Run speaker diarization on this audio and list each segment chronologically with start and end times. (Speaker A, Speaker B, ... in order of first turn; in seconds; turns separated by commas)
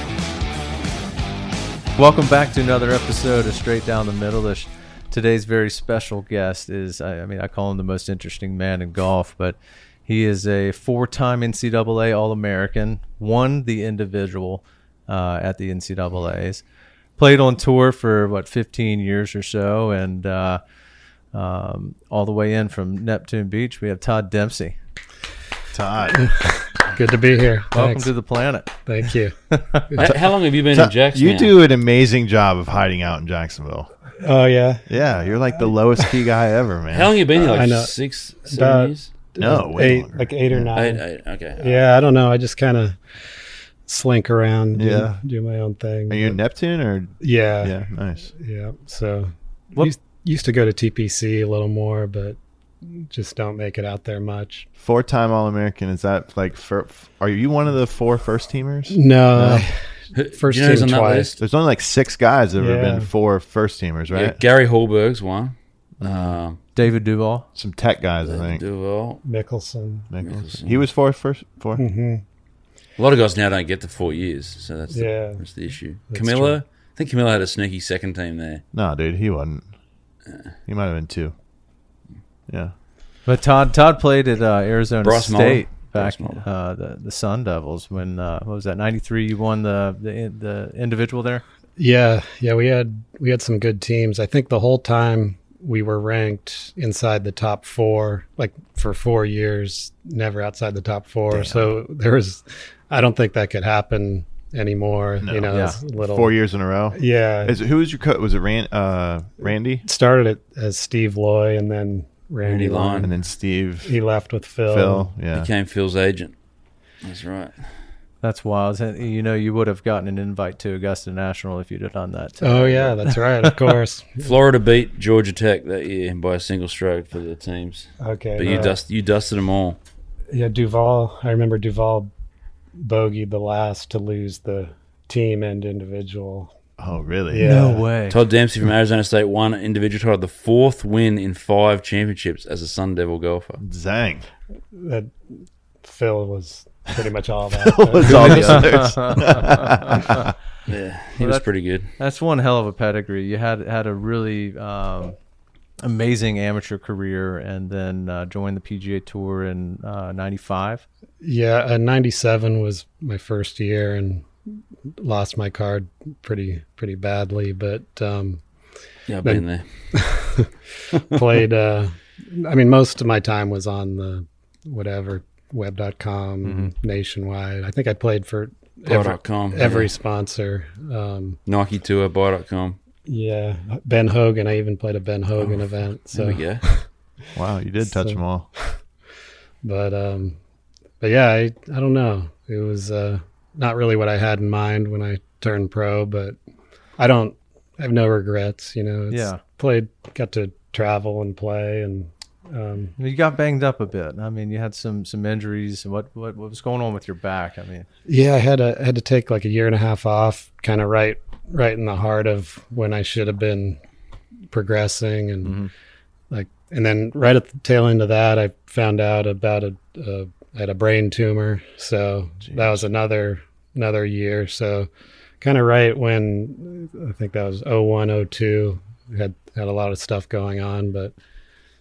Speaker A: 2.0-16.6, Speaker A: 17.2-20.6, Speaker A: 21.3-24.8, Speaker B: 25.7-26.3, Speaker C: 26.1-28.1, Speaker A: 27.7-28.8, Speaker C: 28.8-30.0, Speaker A: 29.5-29.8, Speaker D: 29.9-31.5, Speaker B: 30.0-33.9, Speaker C: 34.2-34.9, Speaker B: 34.9-37.2, Speaker D: 36.9-39.1, Speaker C: 37.4-37.9, Speaker C: 38.5-41.0, Speaker B: 39.4-40.7, Speaker D: 40.7-41.8, Speaker C: 41.6-43.0, Speaker C: 43.9-46.4, Speaker B: 44.8-45.2, Speaker B: 46.1-48.3, Speaker C: 47.2-47.7, Speaker C: 48.3-54.7, Speaker B: 54.8-59.0, Speaker C: 58.9-59.8, Speaker A: 59.4-59.7, Speaker D: 60.1-61.4, Speaker C: 60.4-61.4, Speaker B: 61.4-64.4, Speaker C: 62.6-63.1, Speaker D: 64.1-66.6, Speaker B: 66.0-66.4, Speaker A: 66.8-67.5, Speaker B: 67.5-68.6, Speaker D: 68.2-69.2, Speaker C: 69.2-70.1, Speaker B: 70.1-71.8, Speaker D: 70.2-70.8, Speaker C: 71.8-72.2, Speaker D: 73.0-78.6, Speaker C: 74.9-75.4, Speaker C: 76.1-76.6, Speaker B: 78.7-79.7, Speaker B: 80.7-81.3, Speaker A: 83.2-91.4, Speaker D: 85.0-86.4, Speaker C: 91.8-106.3, Speaker B: 101.3-101.7, Speaker B: 105.2-109.8, Speaker A: 105.5-105.8, Speaker C: 106.9-107.6, Speaker C: 109.8-113.1, Speaker D: 112.4-113.1, Speaker B: 113.0-114.0, Speaker C: 113.8-115.1, Speaker B: 114.7-115.5, Speaker D: 115.3-116.3, Speaker D: 117.0-117.6, Speaker A: 118.2-123.7, Speaker C: 122.4-124.3, Speaker D: 124.2-129.8, Speaker C: 128.0-128.8, Speaker C: 130.3-132.1, Speaker C: 132.8-136.5, Speaker B: 136.8-137.5, Speaker C: 137.3-137.8, Speaker A: 137.4-138.2, Speaker D: 138.1-143.6, Speaker B: 143.6-144.2, Speaker C: 144.7-145.2, Speaker C: 145.8-148.7, Speaker B: 147.5-150.3, Speaker D: 148.0-148.8, Speaker A: 148.2-150.2, Speaker D: 150.7-151.9, Speaker A: 151.2-151.4, Speaker A: 152.0-155.2, Speaker A: 155.8-160.8, Speaker C: 161.2-164.3, Speaker C: 165.0-168.4, Speaker D: 169.1-169.6, Speaker C: 169.2-181.4, Speaker A: 176.4-176.7, Speaker D: 178.8-179.9, Speaker D: 181.5-182.8, Speaker C: 183.1-186.8, Speaker D: 186.1-186.6, Speaker B: 187.3-188.5, Speaker C: 187.8-188.2, Speaker C: 189.6-190.4, Speaker C: 191.0-196.3, Speaker C: 197.0-202.9, Speaker A: 199.1-199.4, Speaker A: 203.0-207.9, Speaker C: 208.1-213.8, Speaker C: 214.5-215.6, Speaker A: 215.4-215.7, Speaker C: 216.3-224.9, Speaker B: 222.4-222.8, Speaker C: 225.4-231.1